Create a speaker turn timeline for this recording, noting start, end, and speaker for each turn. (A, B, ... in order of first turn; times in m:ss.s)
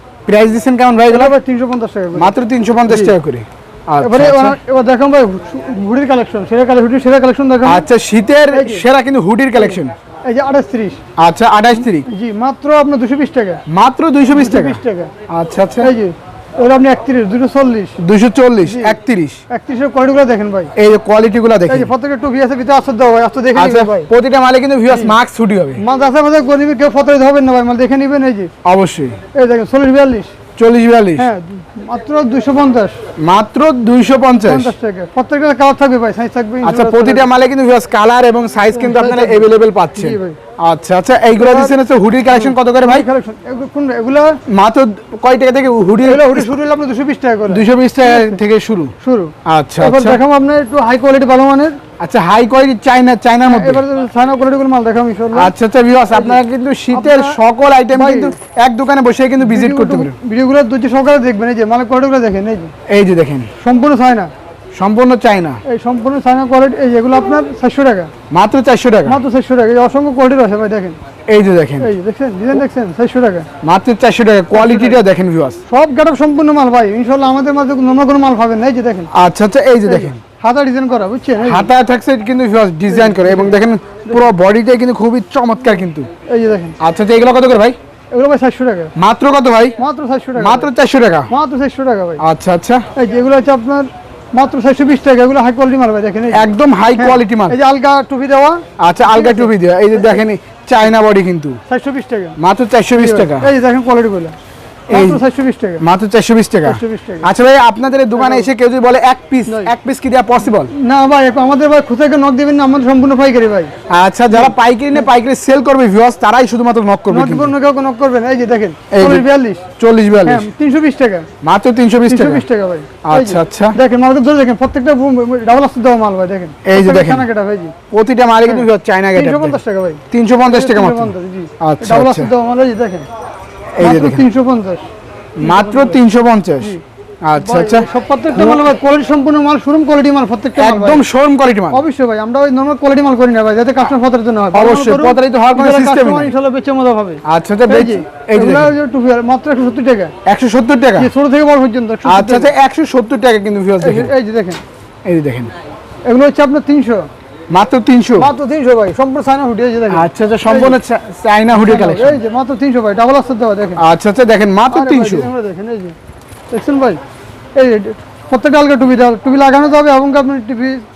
0:00.3-0:01.3 A
0:01.1-0:02.3 B
0:02.2-0:04.6 A
0:02.9-0:03.1 B
0:04.0-0:07.8 B
0:07.6-0:09.9 A
0:08.5-0:08.8 B
0:09.6-0:11.0 B
0:11.2-0:12.1 A
0:11.9-0:13.6 B
0:13.7-0:15.9 A
0:14.3-0:15.1 B
0:15.8-0:18.0 B
0:18.0-0:19.4 A
0:18.6-0:19.0 B
0:19.5-0:20.7 B
0:20.8-0:21.9 A
0:21.7-0:24.1 B
0:23.6-0:25.8 A
0:24.9-0:25.2 B
0:25.8-0:28.5 B
0:28.6-0:29.2 A
0:29.3-0:30.3 B
0:30.6-0:31.3 A
0:31.2-0:33.0 B
0:33.2-0:34.7 A
0:34.4-0:37.3 B
0:36.6-0:43.1 A
0:38.7-0:40.4 B
0:41.4-0:41.8 B
0:42.3-0:44.4 B
0:44.5-0:46.5 A
0:46.0-0:48.4 B
0:47.5-0:48.9 A
0:49.0-0:51.8 B
0:49.4-0:50.2 A
0:52.0-0:53.8 A
0:53.4-0:55.5 B
0:55.4-1:00.2 A
0:56.1-0:56.4 B
0:56.9-0:57.4 B
0:57.9-0:58.3 B
0:59.4-1:02.7 B
1:02.9-1:03.5 A
1:03.6-1:04.3 B
1:04.7-1:05.6 A
1:05.6-1:08.1 B
1:08.3-1:09.2 A
1:09.1-1:11.0 B
1:11.3-1:11.9 A
1:11.8-1:13.5 B
1:13.6-1:15.6 A
1:14.5-1:15.0 B
1:15.7-1:19.1 B
1:19.1-1:20.2 A
1:19.9-1:21.7 B
1:21.4-1:26.1 A
1:22.9-1:24.3 B
1:26.3-1:26.8 B
1:26.8-1:27.8 A
1:28.1-1:28.9 B
1:29.0-1:29.8 A
1:29.8-1:30.7 B
1:30.4-1:31.3 A
1:31.3-1:32.2 B
1:32.2-1:32.8 A
1:33.0-1:40.2 B
1:36.3-1:37.6 A
1:38.8-1:41.6 A
1:41.7-1:42.4 B
1:42.4-1:43.5 A
1:43.0-1:44.4 B
1:44.9-1:45.2 A
1:44.9-1:45.8 B
1:45.8-1:50.7 A
1:46.7-1:47.3 B
1:48.2-1:48.5 B
1:50.7-1:53.7 B
1:53.9-1:57.5 A
1:57.1-1:59.6 B
1:58.9-1:59.2 A
1:59.8-2:00.4 A
2:00.2-2:01.3 B
2:01.4-2:02.4 A
2:02.1-2:07.7 B
2:03.0-2:03.8 A
2:06.6-2:07.3 A
2:07.9-2:09.6 A
2:08.4-2:13.1 B
2:10.1-2:12.3 A
2:13.8-2:14.2 A
2:13.8-2:14.9 B
2:15.4-2:18.6 A
2:15.4-2:16.0 B
2:17.4-2:21.0 B
2:20.6-2:21.8 A
2:21.7-2:30.1 B
2:24.5-2:26.3 A
2:27.2-2:28.7 A
2:30.2-2:31.1 A
2:31.0-2:32.5 B
2:32.0-2:34.1 A
2:33.8-2:34.6 B
2:35.0-2:35.5 A
2:36.0-2:37.1 B
2:37.5-2:38.3 A
2:38.2-2:40.8 B
2:39.9-2:42.2 A
2:41.5-2:43.8 B
2:43.8-2:45.3 A
2:44.7-2:46.0 B
2:46.5-2:47.0 B
2:47.6-2:50.8 B